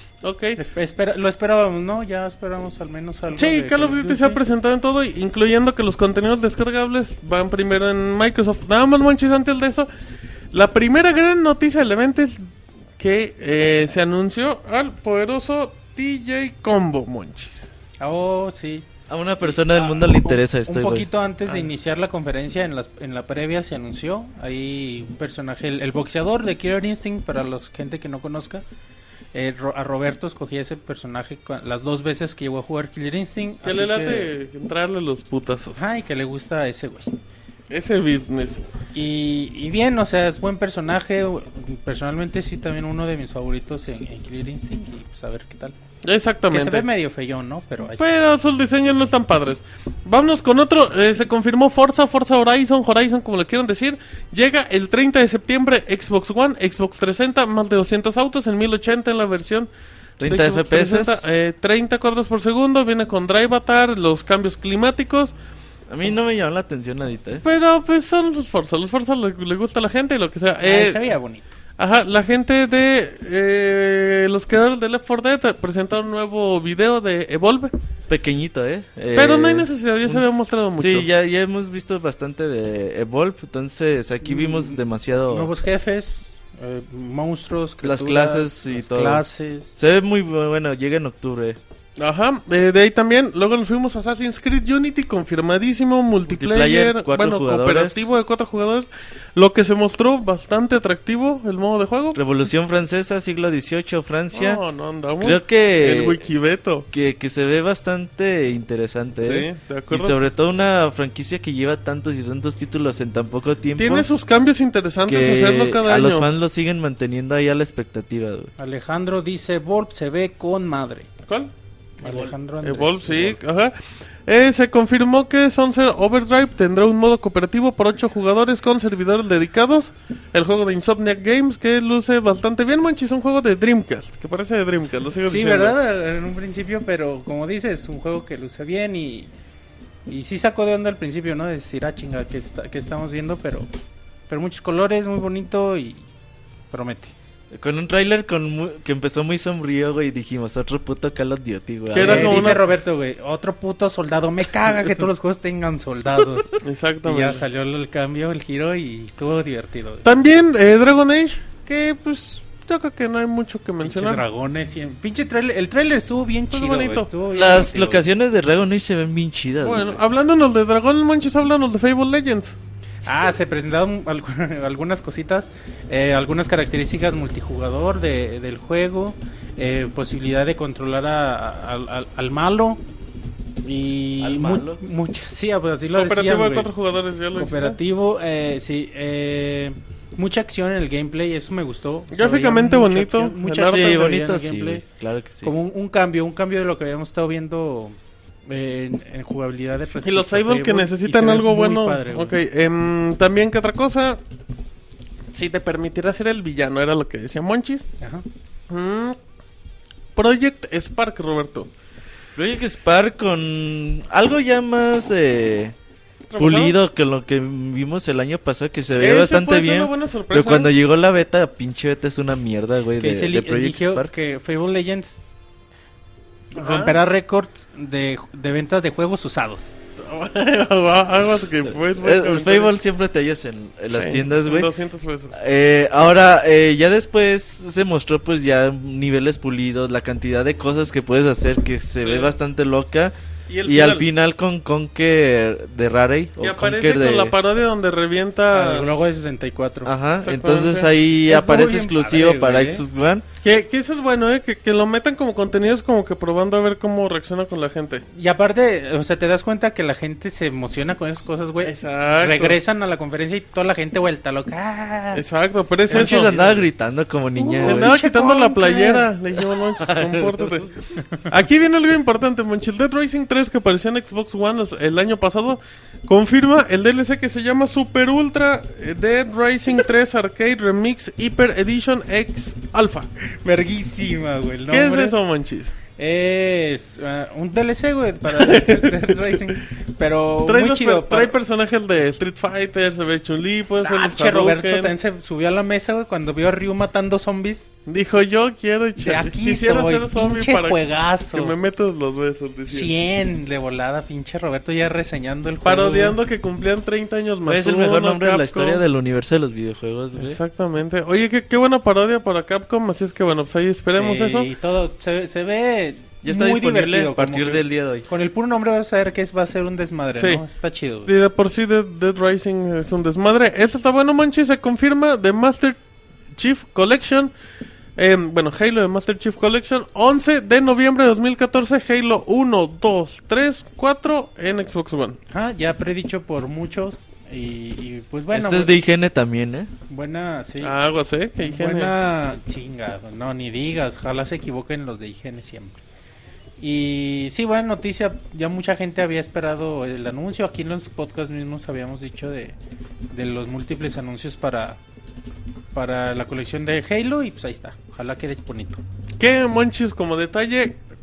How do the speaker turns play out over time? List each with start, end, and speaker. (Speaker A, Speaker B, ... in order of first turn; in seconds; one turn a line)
Speaker A: 0.2-0.6
Speaker B: 0.6-4.4
Speaker A: 3.4-9.9
Speaker A: 10.5-17.7
Speaker B: 18.0-18.9
Speaker C: 19.1-21.1
Speaker B: 19.4-28.6
Speaker B: 29.3-34.3
Speaker A: 33.6-35.8
Speaker B: 35.8-37.1
Speaker A: 37.7-38.6
Speaker B: 38.9-45.8
Speaker A: 46.0-46.9
Speaker B: 46.5-48.1
Speaker A: 48.0-59.7
Speaker C: 60.2-61.2
Speaker A: 60.3-65.3
Speaker C: 65.9-67.4
Speaker A: 67.4-71.0
Speaker B: 70.6-71.5
Speaker A: 71.8-77.7
Speaker C: 78.1-80.2
Speaker A: 79.2-81.1
Speaker C: 80.8-85.5
Speaker B: 84.2-89.7
Speaker C: 87.8-89.2
Speaker C: 89.8-91.6
Speaker A: 92.0-102.2
Speaker C: 96.3-98.0
Speaker C: 102.2-104.6
Speaker A: 104.3-106.9
Speaker C: 105.2-106.2
Speaker C: 106.9-114.1
Speaker A: 109.2-110.2
Speaker A: 113.8-116.3
Speaker C: 115.1-118.5
Speaker B: 118.6-121.1
Speaker B: 122.0-123.4
Speaker C: 122.0-122.3
Speaker A: 122.6-123.8
Speaker A: 124.3-135.8
Speaker B: 135.3-139.3
Speaker B: 140.1-143.7
Speaker B: 144.3-146.0
Speaker B: 146.7-147.1
Speaker C: 147.5-152.5
Speaker A: 151.9-152.7
Speaker B: 152.0-160.1
Speaker A: 156.6-157.4
Speaker A: 160.0-164.2
Speaker B: 163.8-168.1
Speaker A: 166.5-167.1
Speaker C: 167.3-170.0
Speaker A: 169.6-172.6
Speaker B: 173.0-182.8
Speaker B: 183.6-186.7
Speaker C: 184.2-184.8
Speaker A: 185.9-187.8
Speaker B: 187.3-194.8
Speaker A: 192.1-194.0
Speaker C: 193.7-195.5
Speaker B: 195.4-202.4
Speaker A: 200.0-204.2
Speaker A: 205.3-207.9
Speaker B: 208.0-208.3
Speaker A: 208.7-209.2
Speaker A: 210.2-211.7
Speaker C: 212.4-215.7
Speaker A: 216.3-216.8
Speaker C: 216.4-224.1
Speaker A: 219.0-220.7
Speaker B: 223.0-225.2
Speaker B: 226.5-229.7
Speaker A: 226.6-227.0
Speaker A: 230.0-232.7
Speaker C: 232.0-234.7
Speaker A: 233.9-235.4
Speaker C: 235.4-243.1
Speaker A: 242.0-242.3
Speaker A: 243.5-244.1
Speaker C: 243.7-247.3
Speaker A: 246.4-248.9
Speaker B: 248.5-249.9
Speaker C: 249.8-253.2
Speaker A: 250.2-250.9
Speaker B: 251.3-252.8
Speaker A: 253.4-258.0
Speaker B: 258.1-265.2
Speaker A: 261.6-262.6
Speaker A: 265.1-266.3
Speaker B: 265.9-266.6
Speaker C: 265.9-268.0
Speaker B: 267.4-269.1
Speaker A: 267.6-283.1
Speaker C: 269.8-270.4
Speaker B: 283.3-285.2
Speaker A: 284.7-285.8
Speaker B: 286.0-291.4
Speaker A: 288.4-289.3
Speaker A: 290.5-294.9
Speaker B: 293.8-297.7
Speaker A: 297.9-300.8
Speaker B: 299.0-301.6
Speaker A: 301.3-302.9
Speaker B: 302.7-306.2
Speaker A: 305.6-308.8
Speaker C: 307.5-310.4
Speaker A: 310.2-314.5
Speaker B: 313.9-321.1
Speaker C: 316.2-318.1
Speaker A: 320.1-320.4
Speaker A: 321.1-325.8
Speaker A: 326.4-327.3
Speaker A: 328.0-335.2
Speaker B: 335.3-338.7
Speaker C: 338.3-339.7
Speaker B: 339.9-340.8
Speaker A: 340.6-341.9
Speaker B: 341.4-345.8
Speaker B: 346.6-352.6
Speaker B: 353.1-354.8
Speaker B: 355.7-358.8
Speaker A: 359.2-360.8